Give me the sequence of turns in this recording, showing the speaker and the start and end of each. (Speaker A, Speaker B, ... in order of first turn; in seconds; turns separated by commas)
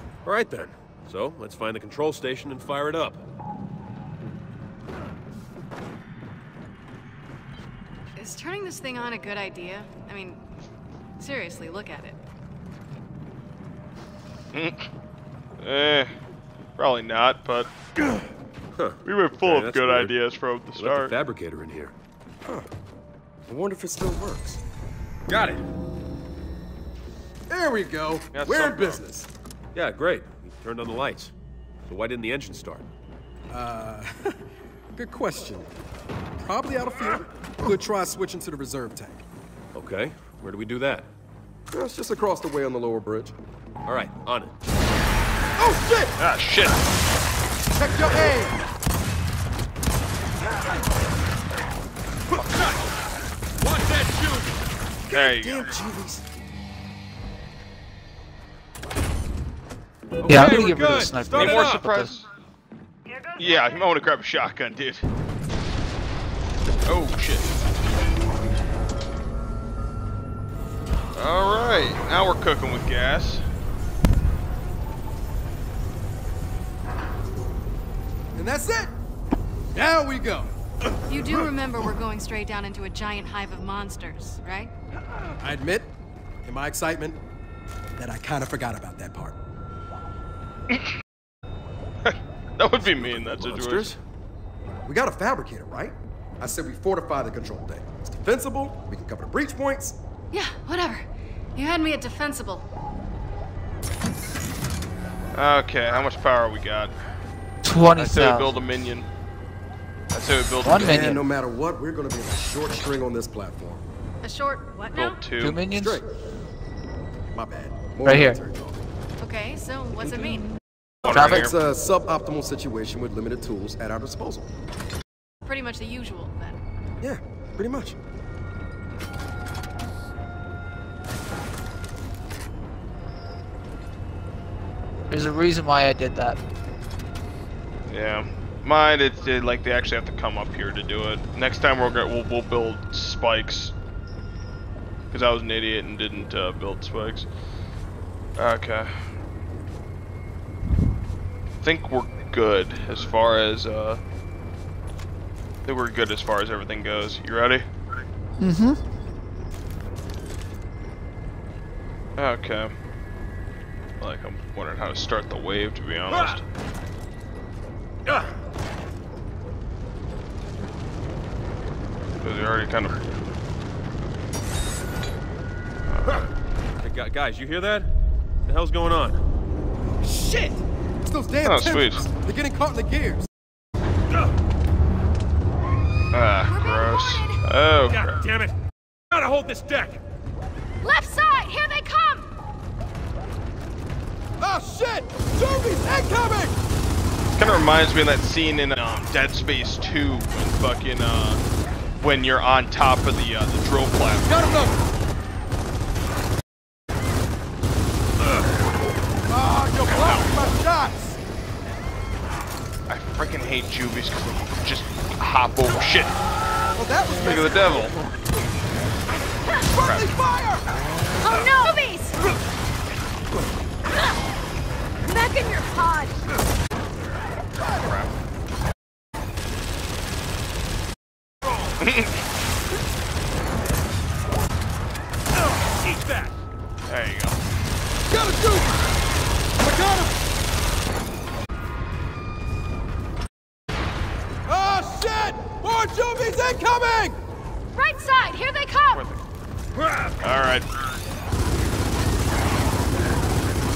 Speaker A: 0.2-3.2, Speaker B: 8.2-10.4, Speaker B: 11.2-12.2, Speaker C: 14.5-14.9, Speaker C: 15.6-16.1, Speaker C: 16.8-17.7, Speaker A: 18.8-20.1, Speaker C: 19.0-21.1, Speaker A: 20.8-21.9, Speaker D: 23.5-24.6, Speaker A: 25.3-25.6, Speaker D: 27.5-29.3, Speaker C: 28.3-29.0, Speaker A: 29.7-31.3, Speaker A: 31.9-32.9, Speaker D: 33.5-34.4, Speaker D: 34.9-35.7, Speaker D: 36.4-39.2, Speaker A: 39.7-41.1, Speaker D: 41.7-43.3, Speaker A: 43.9-44.5, Speaker D: 45.6-46.1, Speaker C: 46.2-46.8, Speaker D: 47.8-48.5, Speaker A: 52.3-52.7, Speaker A: 53.6-54.6, Speaker D: 55.1-56.2, Speaker C: 55.1-55.8, Speaker A: 60.2-61.8, Speaker E: 60.2-62.2, Speaker C: 61.3-62.2, Speaker C: 63.4-65.0, Speaker C: 66.8-67.5, Speaker C: 71.1-73.4, Speaker D: 78.3-78.9, Speaker D: 79.7-80.5, Speaker B: 81.1-84.7, Speaker D: 85.4-85.9, Speaker D: 86.4-87.2, Speaker D: 88.0-89.4, Speaker C: 92.0-93.9, Speaker A: 92.9-94.0, Speaker D: 94.8-100.0, Speaker B: 100.3-102.7, Speaker C: 105.3-106.9, Speaker E: 107.6-108.6, Speaker C: 108.0-109.1, Speaker C: 110.1-111.1, Speaker E: 110.6-111.2, Speaker D: 110.8-113.8, Speaker B: 114.2-115.2, Speaker C: 114.9-115.6, Speaker E: 115.4-116.0, Speaker D: 115.7-116.1, Speaker D: 117.3-118.8, Speaker E: 118.0-118.4, Speaker B: 119.2-120.5, Speaker C: 121.0-121.5, Speaker E: 121.1-121.5, Speaker D: 121.1-124.5, Speaker B: 125.4-126.6, Speaker D: 127.0-128.0, Speaker E: 135.1-136.4, Speaker C: 137.9-143.7, Speaker C: 145.1-147.2, Speaker C: 148.4-149.1, Speaker C: 151.6-154.0, Speaker C: 155.6-157.6, Speaker E: 158.4-158.8, Speaker C: 162.2-162.7, Speaker C: 164.0-166.4, Speaker C: 172.2-173.0, Speaker C: 175.9-176.3, Speaker A: 176.8-177.9, Speaker A: 178.4-179.2, Speaker D: 180.0-183.3, Speaker C: 181.4-182.0, Speaker C: 186.1-188.2, Speaker F: 186.5-187.4, Speaker A: 187.9-188.6, Speaker A: 189.1-190.0, Speaker F: 190.8-192.3, Speaker D: 194.4-196.5, Speaker C: 197.4-201.4, Speaker C: 202.0-204.6, Speaker D: 204.3-204.8, Speaker D: 209.3-211.2, Speaker C: 209.8-210.5, Speaker C: 212.9-216.1, Speaker D: 216.8-217.9, Speaker C: 217.2-217.9, Speaker D: 219.7-220.7, Speaker C: 219.8-220.1, Speaker F: 221.2-222.2, Speaker F: 225.0-226.2, Speaker C: 227.7-228.1, Speaker C: 231.8-232.2, Speaker A: 235.7-236.3, Speaker C: 236.9-237.4, Speaker D: 238.1-238.7, Speaker D: 239.6-240.2, Speaker D: 244.4-247.2, Speaker F: 247.7-249.0, Speaker C: 248.9-249.2, Speaker C: 250.2-250.7